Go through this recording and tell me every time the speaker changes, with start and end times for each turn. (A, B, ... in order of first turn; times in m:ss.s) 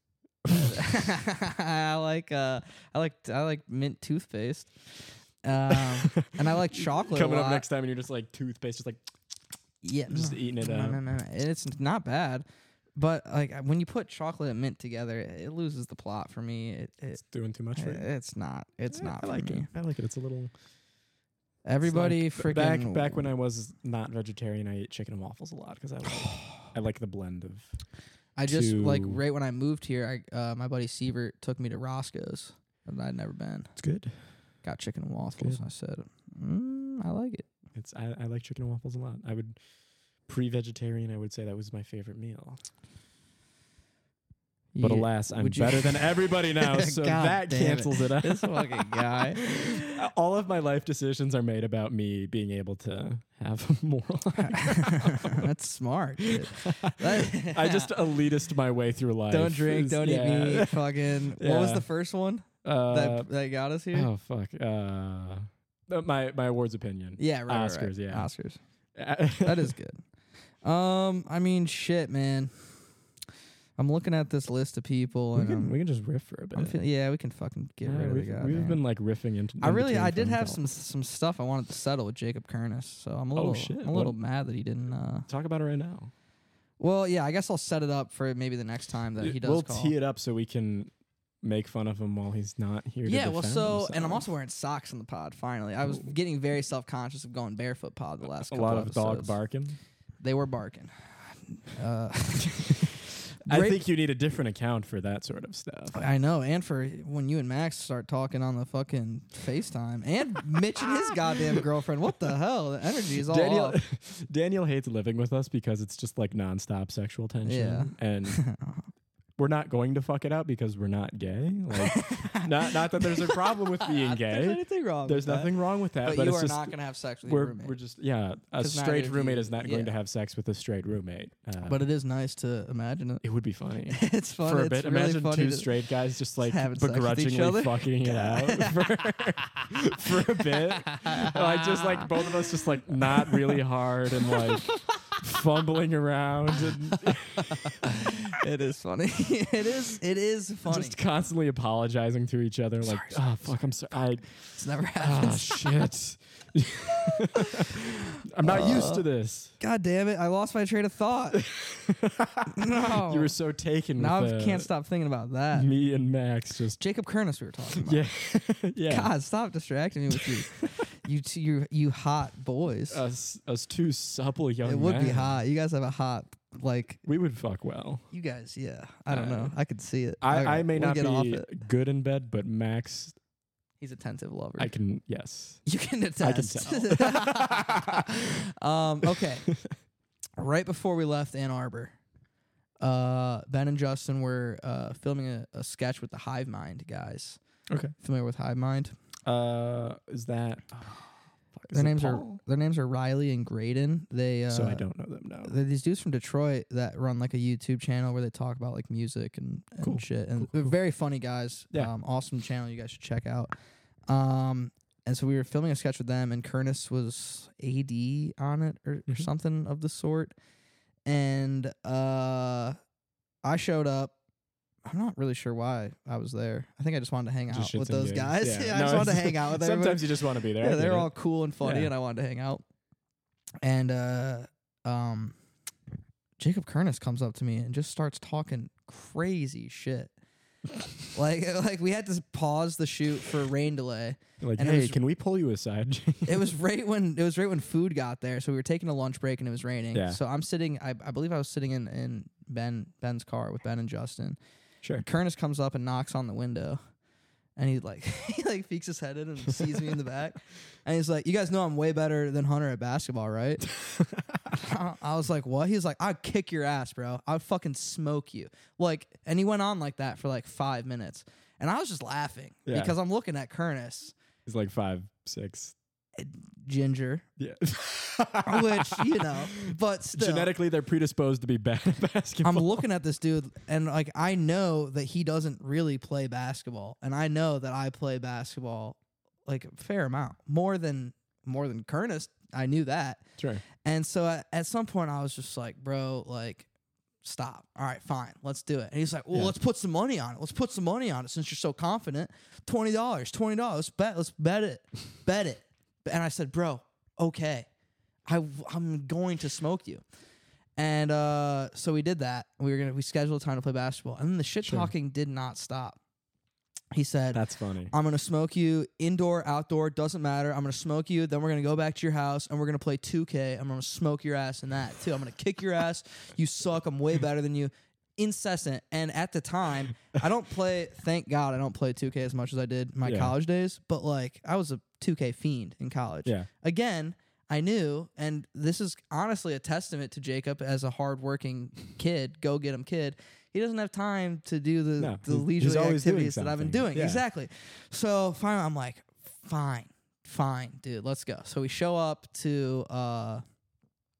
0:00.5-0:07.6 A
0:05.7-0:09.0 B
0:09.8-0:12.4 A
0:10.1-0:11.0 B
0:13.0-0:17.2 A
0:17.1-0:18.1 B
0:17.7-0:19.7 A
0:18.9-0:20.5 B
0:21.6-0:23.3 A
0:21.8-0:27.8 B
0:28.4-0:33.7 A
0:28.4-0:29.2 B
0:33.8-0:34.4 B
0:34.6-0:37.5 A
0:37.7-0:39.6 B
0:40.2-0:42.6 B
0:44.7-0:50.0 A
0:44.8-0:55.5 B
0:54.8-0:57.9 A
0:56.4-1:01.9 B
0:59.3-1:04.1 A
1:02.6-1:03.3 B
1:03.9-1:08.3 B
1:07.2-1:08.6 A
1:08.9-1:09.7 B
1:09.4-1:10.0 A
1:10.6-1:12.8 A
1:13.8-1:15.8 A
1:15.3-1:16.8 B
1:16.5-1:18.8 A
1:17.8-1:20.6 B
1:19.6-1:25.3 A
1:23.3-1:24.2 B
1:25.2-1:26.1 B
1:26.8-1:29.9 A
1:29.2-1:34.3 B
1:33.0-1:39.4 A
1:35.8-1:36.1 B
1:38.2-1:39.8 B
1:40.2-1:42.8 A
1:43.4-1:43.8 A
1:43.4-1:46.0 B
1:45.9-1:53.8 A
1:53.1-1:58.4 B
1:57.4-1:58.9 A
1:59.4-2:11.8 B
2:01.8-2:07.8 A
2:08.6-2:09.9 A
2:11.6-2:13.2 A
2:13.2-2:27.7 B
2:13.9-2:15.7 A
2:16.4-2:19.2 A
2:20.5-2:22.1 A
2:23.3-2:23.6 A
2:27.0-2:31.0 A
2:30.7-2:39.5 B
2:32.8-2:33.5 A
2:34.5-2:35.7 A
2:38.4-2:39.0 A
2:39.6-2:41.4 A
2:41.3-2:44.7 B
2:42.5-2:43.3 A
2:44.0-2:45.7 A
2:45.5-2:46.8 B
2:46.8-2:48.1 A
2:47.8-2:49.1 B
2:48.9-2:53.0 A
2:50.1-2:50.6 B
2:52.9-2:55.4 B
2:54.6-2:57.0 A
2:57.0-2:58.0 B
2:58.1-3:01.5 A
2:59.1-2:59.5 B
3:00.2-3:03.2 B
3:03.8-3:04.7 A
3:04.6-3:05.7 B
3:05.6-3:09.5 A
3:06.2-3:08.0 B
3:10.4-3:11.9 A
3:12.8-3:17.4 A
3:17.7-3:17.9 B
3:18.0-3:18.9 A
3:19.2-3:21.0 B
3:21.5-3:22.4 B
3:21.7-3:24.9 A
3:24.5-3:25.5 B
3:25.4-3:33.5 A
3:29.8-3:30.7 B
3:34.1-3:40.3 A
3:41.0-3:42.8 A
3:43.4-3:44.1 A
3:44.8-3:52.6 A
3:47.5-3:51.9 B
3:53.6-3:55.4 A
3:56.4-4:00.1 A
4:01.1-4:05.0 A
4:04.4-4:06.5 B
4:06.2-4:14.4 A
4:09.9-4:10.2 B
4:15.0-4:16.8 A
4:17.6-4:23.6 A
4:23.7-4:24.6 B
4:24.5-4:34.1 A
4:32.7-4:33.0 B
4:34.4-4:35.7 B
4:36.2-4:37.2 A
4:37.4-4:42.8 B
4:38.4-4:40.5 A
4:42.4-4:53.2 A
4:53.4-4:53.6 B
4:53.8-4:56.7 A
4:57.2-5:07.7 A
5:08.3-5:10.0 A
5:10.8-5:16.0 A
5:14.6-5:14.9 B
5:16.9-5:53.4 A
5:17.3-5:17.9 B
5:33.0-5:33.3 B
5:45.0-5:47.2 B